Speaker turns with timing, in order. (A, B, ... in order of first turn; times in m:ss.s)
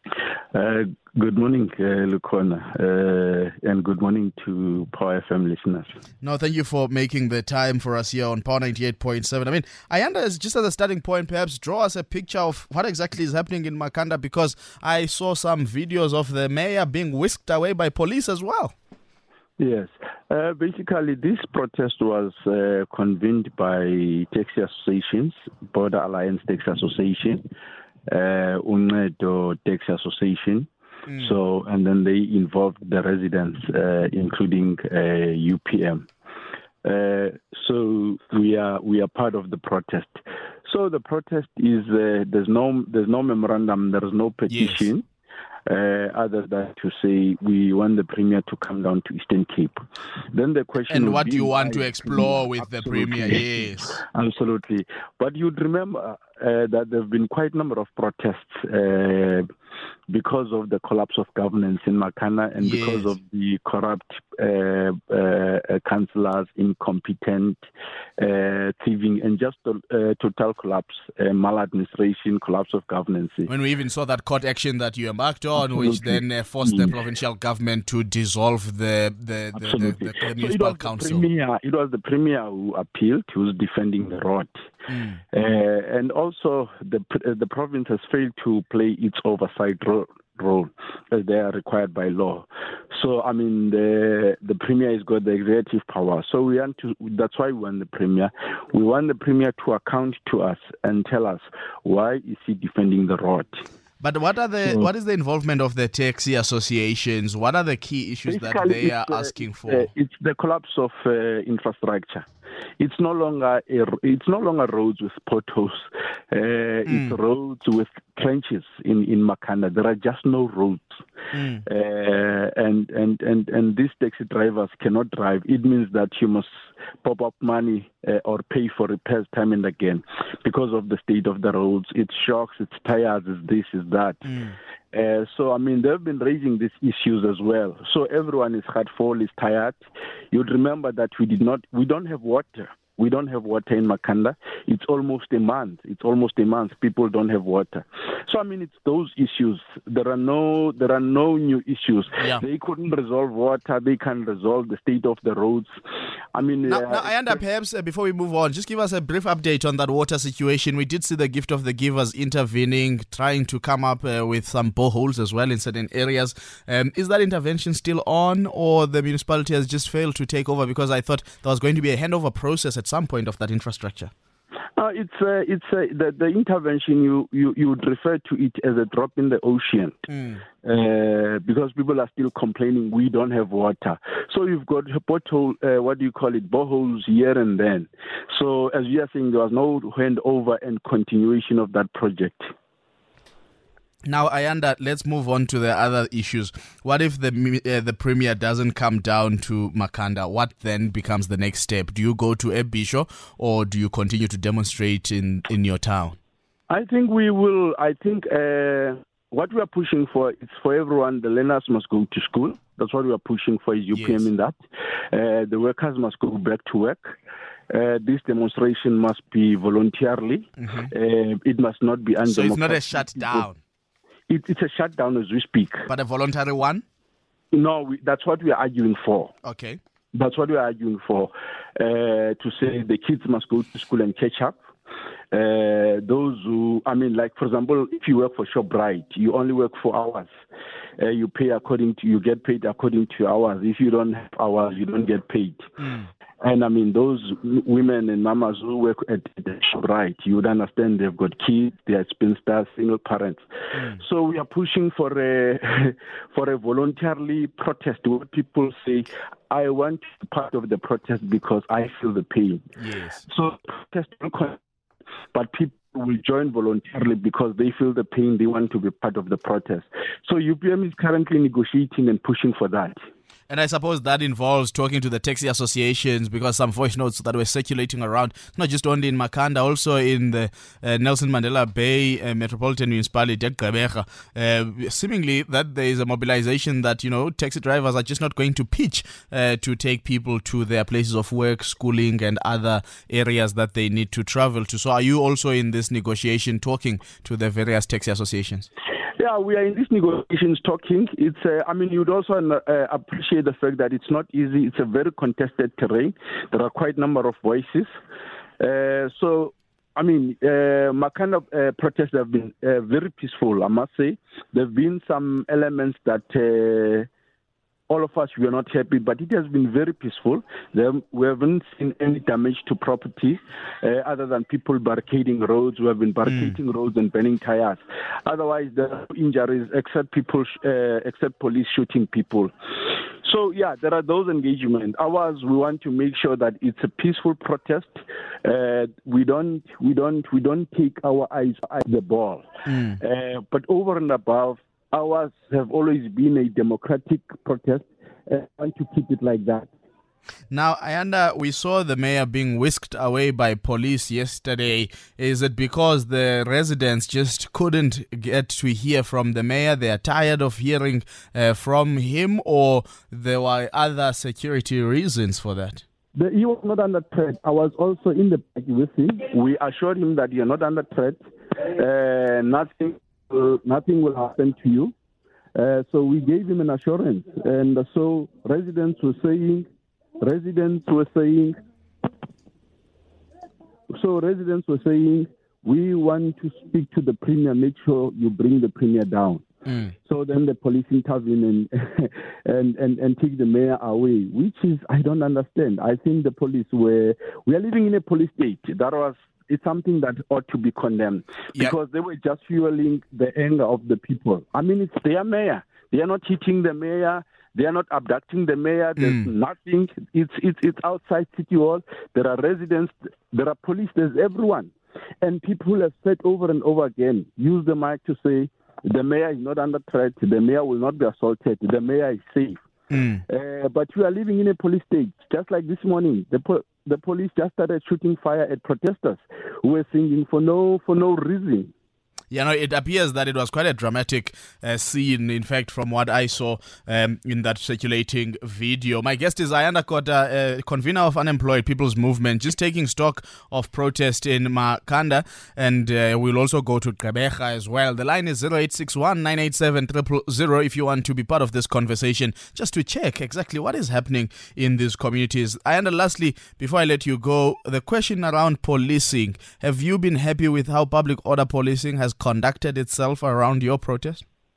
0:00.5-0:05.9 A
0:06.2-0:18.7 B
0:19.6-0:27.4 A
0:28.1-0:36.1 A
0:31.1-0:31.3 B
0:36.8-0:45.0 A
0:44.5-0:44.9 B
0:45.6-0:49.8 A
0:50.3-0:59.5 A
0:50.9-0:54.0 B
1:00.1-1:07.6 A
1:02.6-1:03.1 B
1:08.2-1:13.5 A
1:13.5-1:21.3 B
1:15.6-1:16.9 A
1:19.5-1:24.6 A
1:24.9-1:25.2 B
1:25.3-1:43.6 A
1:44.0-1:49.9 B
1:44.6-1:44.9 A
1:48.3-1:52.2 A
1:52.8-2:01.0 A
1:56.9-1:57.2 B
2:01.3-2:01.6 B
2:01.6-2:06.5 A
2:07.0-2:14.3 A
2:14.3-2:14.5 B
2:14.9-2:19.8 A
2:20.3-2:35.7 A
2:32.2-2:32.4 B
2:36.3-2:37.4 A
2:36.6-2:54.1 B
2:54.8-3:00.1 A
3:00.1-3:00.4 B
3:00.6-3:12.5 A
3:14.0-3:26.2 B
3:26.7-3:34.6 A
3:33.9-3:34.2 B
3:35.1-3:37.1 A
3:37.7-3:43.5 A
3:40.6-3:40.9 B
3:42.2-3:43.6 B
3:44.3-3:45.9 A
3:45.9-3:46.8 B
3:47.5-3:49.3 A
3:49.4-3:49.8 B
3:50.1-3:54.6 A
3:55.3-4:00.3 A
4:01.0-4:05.7 A
4:05.8-4:06.1 B
4:06.4-4:13.4 A
4:13.7-4:14.0 B
4:13.9-4:22.7 A
4:22.8-4:23.2 B
4:23.2-4:24.6 A
4:25.3-4:33.0 A
4:33.5-4:58.7 B
4:59.2-5:07.9 A
5:08.6-5:17.1 A
5:17.9-5:32.5 A
5:26.2-5:26.6 B
5:33.2-5:49.7 A
5:42.7-5:43.0 B
5:50.5-6:05.8 B
6:06.1-6:14.9 A
6:15.5-6:19.6 A
6:20.2-6:21.6 A
6:23.9-6:29.4 A
6:30.0-7:02.6 A
6:49.0-6:49.3 B
7:02.9-7:03.2 B
7:03.3-7:11.7 A
7:12.3-7:44.2 B